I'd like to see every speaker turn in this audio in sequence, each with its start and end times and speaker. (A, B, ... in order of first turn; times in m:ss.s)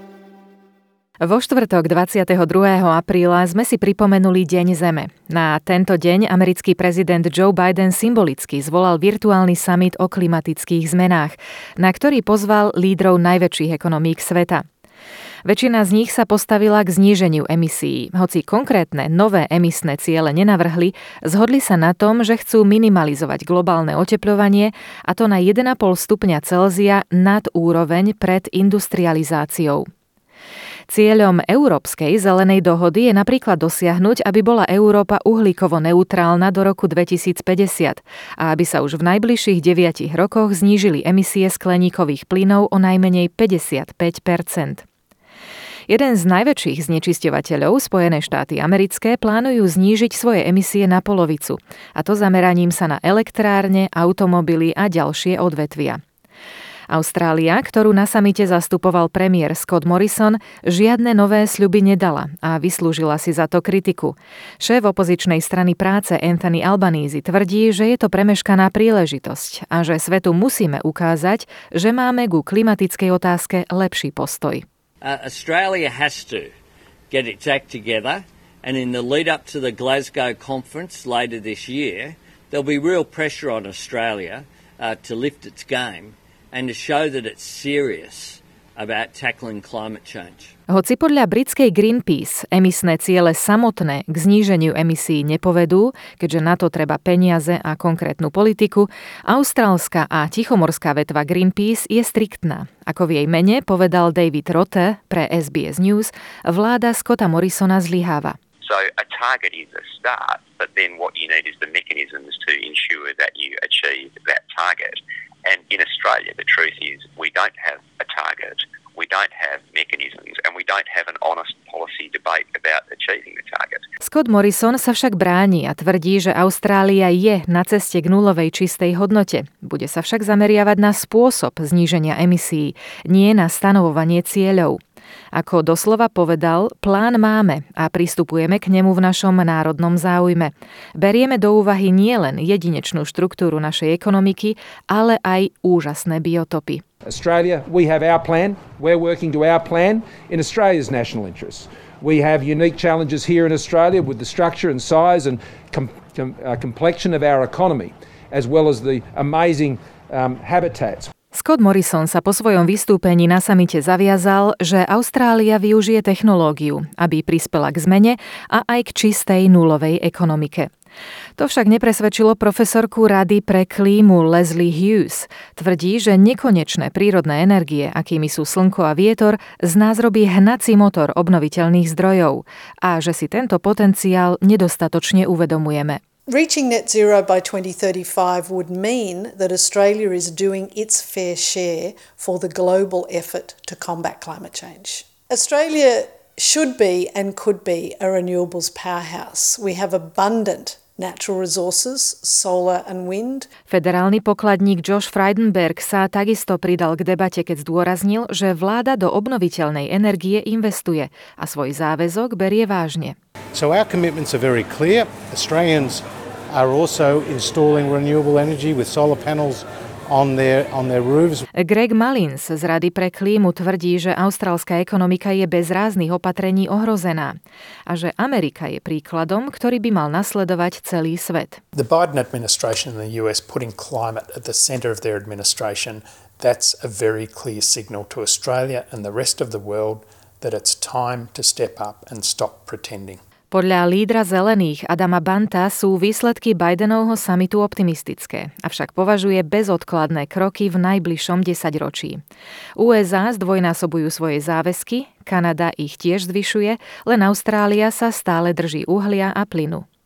0:01.2-0:14.6 A
0:15.4-0:29.9 A
0:30.9-0:44.8 A
0:45.9-0:56.0 A
0:56.9-1:14.6 A
1:15.0-1:16.5 B
1:17.1-1:30.5 B
1:30.7-1:48.4 A
1:48.6-2:03.8 C
2:04.0-2:14.8 A
2:15.3-2:26.8 A
2:27.0-2:41.1 D
2:41.3-2:50.7 A
2:51.4-3:06.0 A
3:06.3-3:23.5 E
3:23.7-3:33.1 A
3:33.5-3:41.4 F
3:41.6-3:51.6 A
3:51.7-4:03.2 G
4:03.5-4:12.2 A
4:12.8-4:19.8 A